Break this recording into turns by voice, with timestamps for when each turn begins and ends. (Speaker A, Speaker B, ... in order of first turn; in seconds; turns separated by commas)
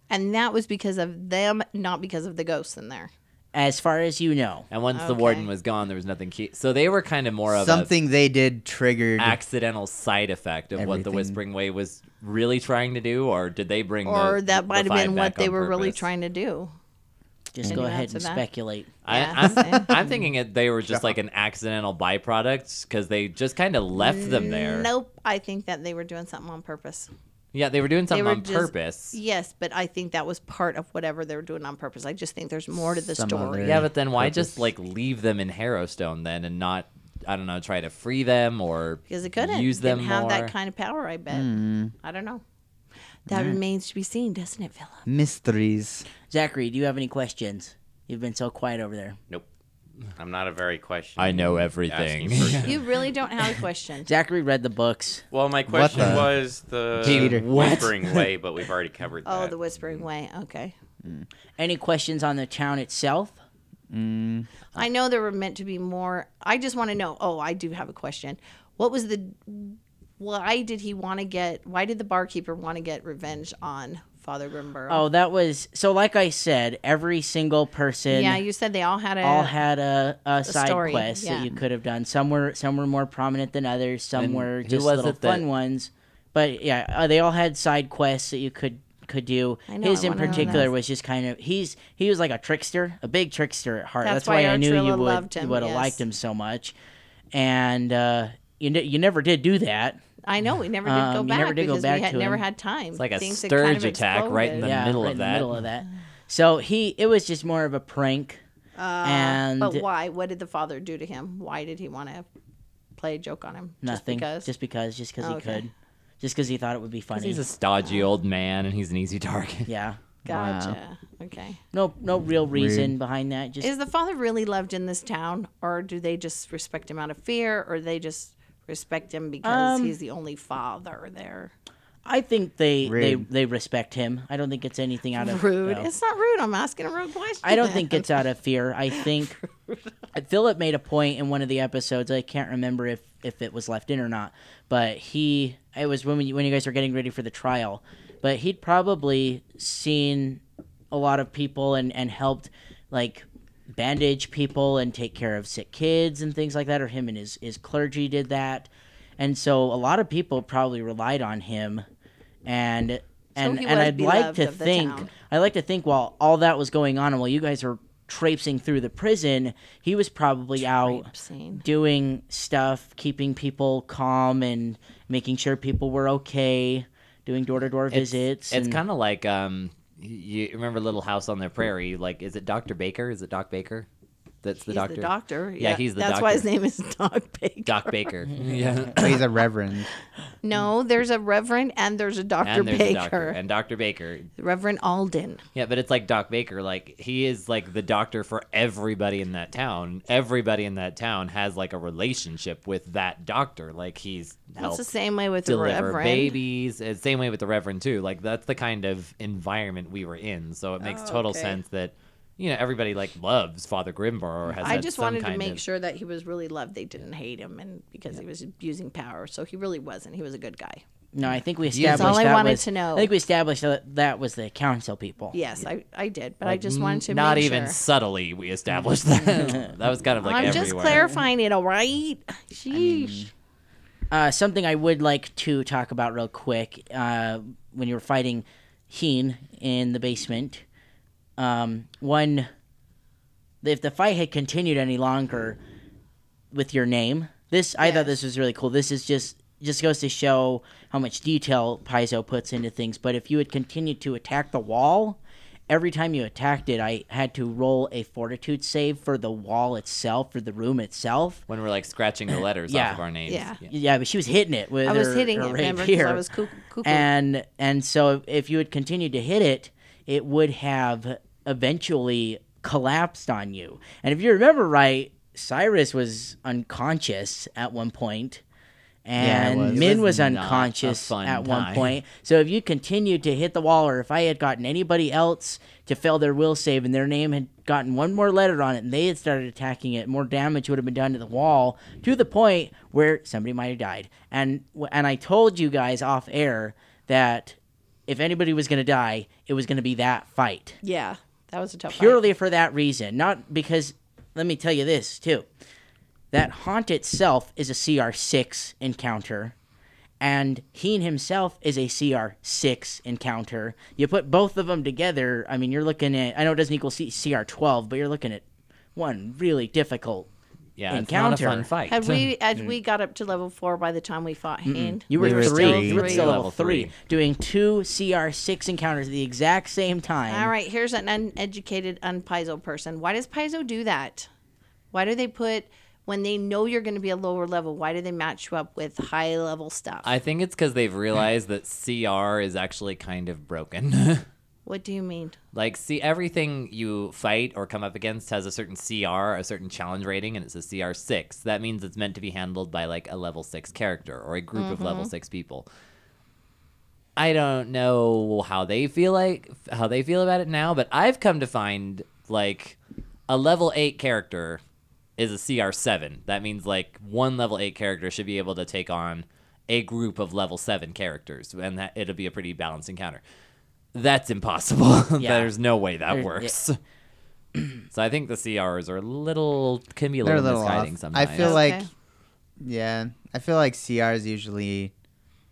Speaker A: 0.1-3.1, Speaker B: 3.5-4.7, Speaker C: 4.7-7.9, Speaker A: 4.9-5.5, Speaker D: 7.5-9.4, Speaker C: 9.2-16.1, Speaker D: 10.8-11.4, Speaker A: 14.1-16.7, Speaker B: 17.5-18.9, Speaker A: 17.7-18.4, Speaker C: 19.1-24.9, Speaker A: 19.1-20.1, Speaker A: 24.0-27.1, Speaker C: 27.5-29.2, Speaker A: 28.1-33.8, Speaker D: 33.0-34.7, Speaker C: 33.6-40.5, Speaker A: 39.1-42.4, Speaker D: 41.3-41.9, Speaker A: 43.3-45.0, Speaker D: 43.3-43.6, Speaker D: 45.1-46.1, Speaker B: 46.3-49.2, Speaker E: 50.1-52.8, Speaker C: 51.2-52.7, Speaker A: 52.6-54.1, Speaker B: 54.1-55.3, Speaker E: 55.3-60.1, Speaker D: 55.7-56.3, Speaker C: 55.8-56.2, Speaker C: 57.0-58.3, Speaker D: 57.0-57.5, Speaker A: 59.2-60.7, Speaker B: 61.6-63.4, Speaker D: 63.9-64.5, Speaker A: 64.7-75.0, Speaker B: 74.9-78.4, Speaker A: 78.1-79.5, Speaker B: 79.2-96.7, Speaker A: 80.5-81.5, Speaker C: 84.2-85.5, Speaker A: 89.7-90.7, Speaker D: 90.3-90.6, Speaker A: 94.0-96.0, Speaker B: 97.3-100.0, Speaker A: 100.2-104.7, Speaker B: 100.8-102.4, Speaker C: 103.0-105.5, Speaker B: 104.6-108.4, Speaker A: 108.8-112.3, Speaker B: 109.0-109.8, Speaker A: 113.0-114.5, Speaker B: 113.8-117.4, Speaker A: 115.2-115.7, Speaker C: 117.1-119.7, Speaker B: 119.7-120.0, Speaker D: 120.2-120.8, Speaker A: 120.3-121.6, Speaker B: 121.7-123.7, Speaker D: 122.5-122.9, Speaker A: 123.6-131.5, Speaker B: 129.4-130.0, Speaker B: 132.1-135.9, Speaker D: 132.8-133.3, Speaker A: 135.2-138.2, Speaker B: 137.4-139.4, Speaker A: 139.0-139.8, Speaker B: 140.2-161.9, Speaker B: 162.5-171.1, Speaker A: 163.4-165.1, Speaker A: 170.6-171.7, Speaker B: 171.6-178.8, Speaker C: 177.9-183.9, Speaker C: 184.4-186.5, Speaker A: 184.7-188.1, Speaker C: 187.7-189.2, Speaker B: 188.3-188.6, Speaker D: 189.0-189.9, Speaker A: 190.4-193.4, Speaker C: 192.4-194.3, Speaker A: 194.4-195.4, Speaker C: 195.6-204.9, Speaker A: 204.6-206.4, Speaker C: 205.4-215.6, Speaker A: 210.8-211.6, Speaker A: 214.6-220.8, Speaker B: 221.1-225.4, Speaker D: 221.7-222.3, Speaker A: 221.8-223.1, Speaker A: 225.3-227.8, Speaker C: 226.4-231.0, Speaker B: 229.1-229.7, Speaker A: 230.2-233.3, Speaker B: 230.4-231.2, Speaker D: 232.7-233.3, Speaker B: 234.1-240.6, Speaker B: 241.4-242.5, Speaker B: 243.6-245.6, Speaker B: 246.5-261.4, Speaker A: 247.8-248.2, Speaker C: 261.5-263.6, Speaker B: 262.7-263.0, Speaker A: 263.3-263.6, Speaker B: 263.6-266.2, Speaker A: 264.9-267.1, Speaker B: 266.8-278.4, Speaker B: 279.1-300.8, Speaker D: 279.2-280.0, Speaker C: 279.6-282.0, Speaker A: 300.8-302.2, Speaker B: 301.9-305.5, Speaker B: 306.3-309.5, Speaker B: 310.2-318.4, Speaker B: 319.0-320.3, Speaker C: 320.8-322.3, Speaker B: 320.9-321.7, Speaker A: 321.9-326.3, Speaker B: 324.7-330.5, Speaker D: 325.1-326.3, Speaker C: 325.2-326.9, Speaker A: 330.3-334.3, Speaker A: 334.9-340.1, Speaker C: 340.0-344.3, Speaker A: 344.7-345.4, Speaker C: 345.5-355.7, Speaker A: 354.6-355.1, Speaker C: 357.2-362.8, Speaker C: 363.3-364.6, Speaker C: 365.2-373.2, Speaker C: 373.9-376.8, Speaker B: 375.2-375.5, Speaker B: 376.1-376.5, Speaker C: 377.9-381.6, Speaker D: 380.2-381.9, Speaker A: 381.4-381.9, Speaker D: 382.6-384.9